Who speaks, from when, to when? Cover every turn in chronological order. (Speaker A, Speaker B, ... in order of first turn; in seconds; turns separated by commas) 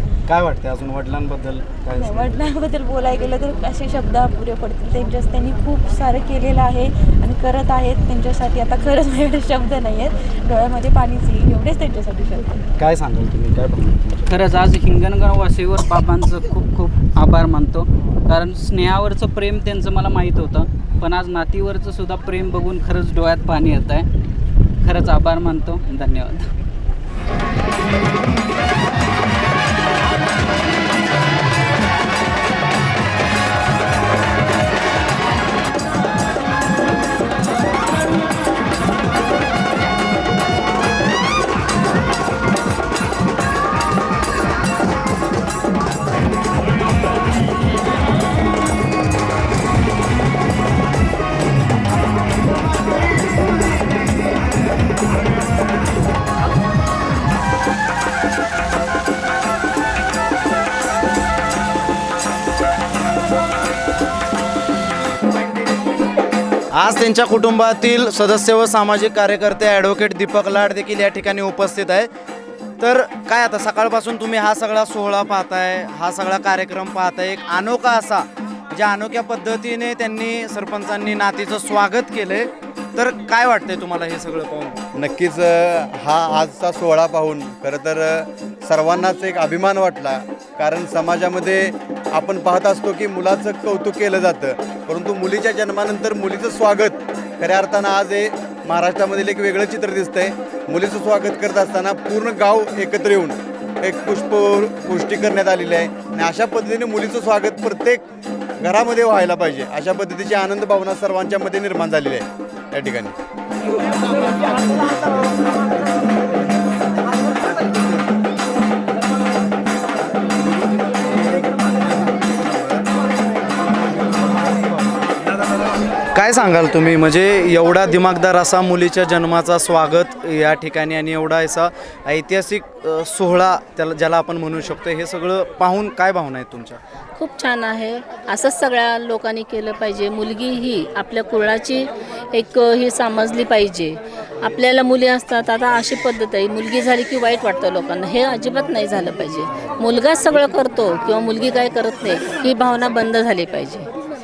Speaker A: 0.3-2.4, Speaker B: 1.9-12.7, Speaker A: 12.8-14.2, Speaker C: 14.3-24.1, Speaker C: 24.8-26.5, Speaker A: 66.7-72.1, Speaker A: 72.8-84.8, Speaker D: 84.9-108.1, Speaker D: 108.6-113.2, Speaker A: 122.0-122.8, Speaker A: 126.1-136.8, Speaker E: 137.2-153.9